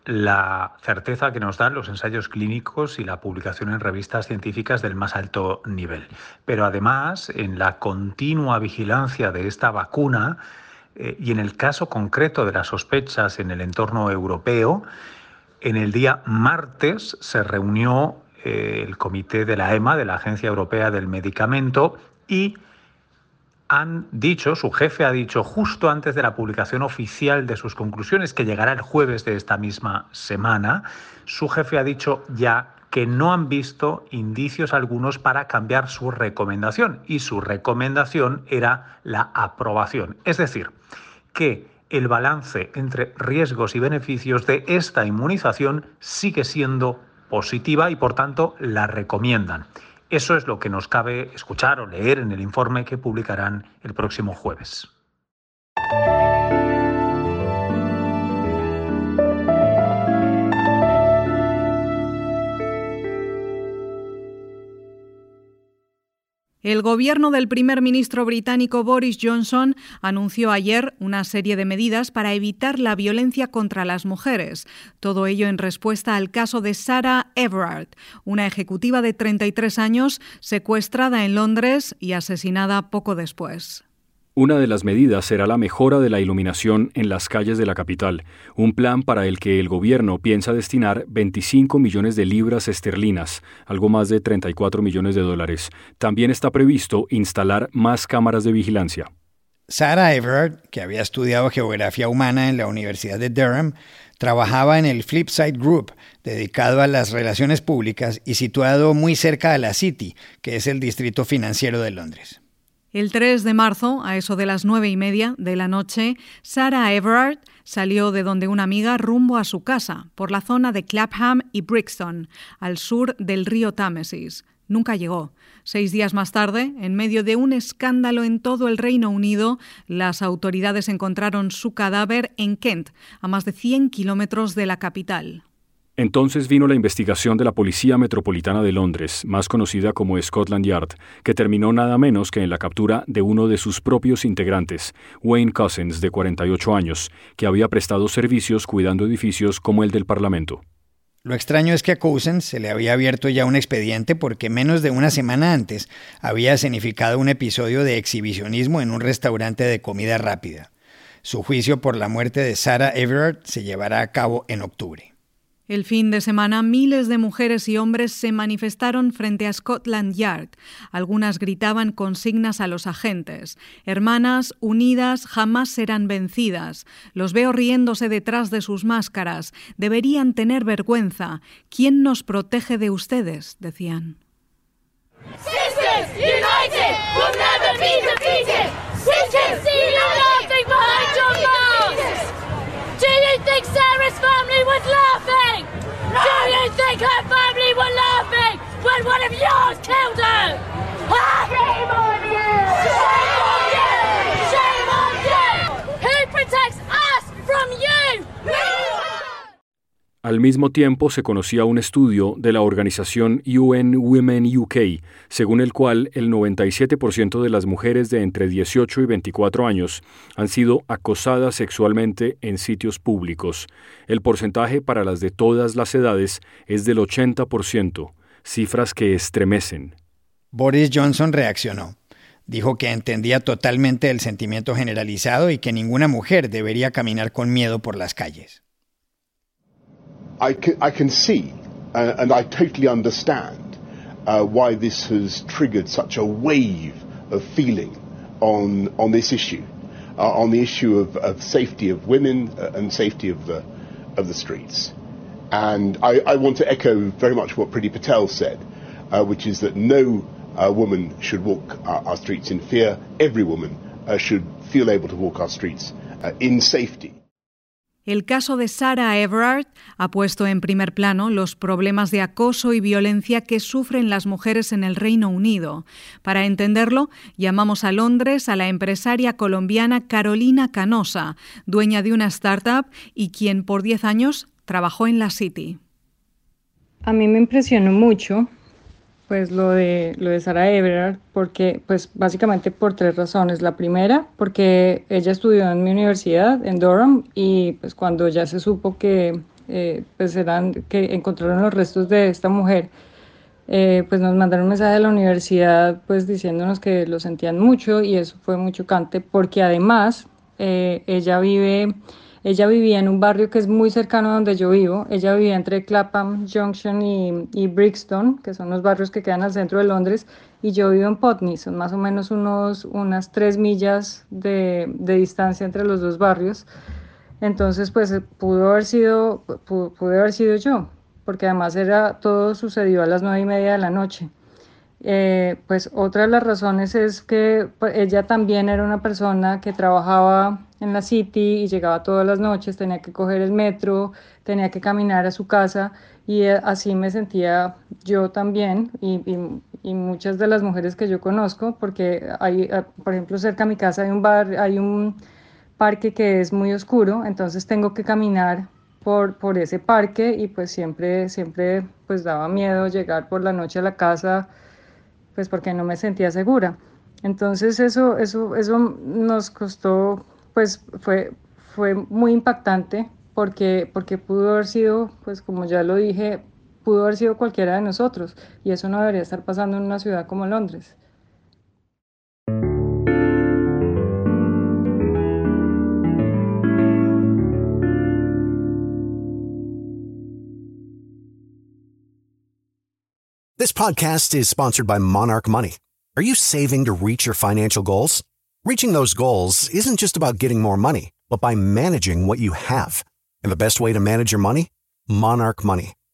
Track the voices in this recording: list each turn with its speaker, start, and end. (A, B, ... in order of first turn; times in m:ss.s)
0:11.3-0:11.7 A
0:13.0-0:13.6 A
0:15.7-0:17.8 A
0:19.1-0:20.0 A
0:21.1-0:21.6 A
0:23.9-0:27.0 A
0:27.7-0:30.7 A
0:31.5-0:31.8 A
0:32.9-0:40.4 A
0:41.8-0:46.8 A
0:47.6-0:49.5 A
0:50.1-0:54.8 A
1:06.6-1:23.8 B
1:24.4-1:39.1 C
1:39.7-1:52.4 D
1:52.9-2:15.4 B
2:16.0-2:30.6 C
2:31.2-2:40.7 D
2:41.2-2:45.1 D
2:45.7-3:04.2 B
3:07.0-3:08.5 E
3:09.2-3:12.0 E
3:13.0-3:20.6 E
3:21.3-3:29.0 E
3:30.2-3:50.0 C
3:50.5-3:52.0 D
3:52.5-3:58.6 D
4:00.4-4:03.7 F
4:04.3-4:09.7 F
4:10.2-4:13.6 F
4:14.2-4:14.9 F
4:15.5-4:27.1 F
4:28.1-4:45.8 B
4:47.0-4:48.5 G
4:49.3-5:02.9 G
5:03.7-5:26.7 G
5:27.4-5:34.3 G
5:35.0-5:55.2 G
5:55.8-6:04.5 G
6:05.4-6:21.0 G
6:33.6-6:35.7 H
6:33.6-6:34.8 F
6:36.2-6:45.9 H
6:39.1-6:40.1 F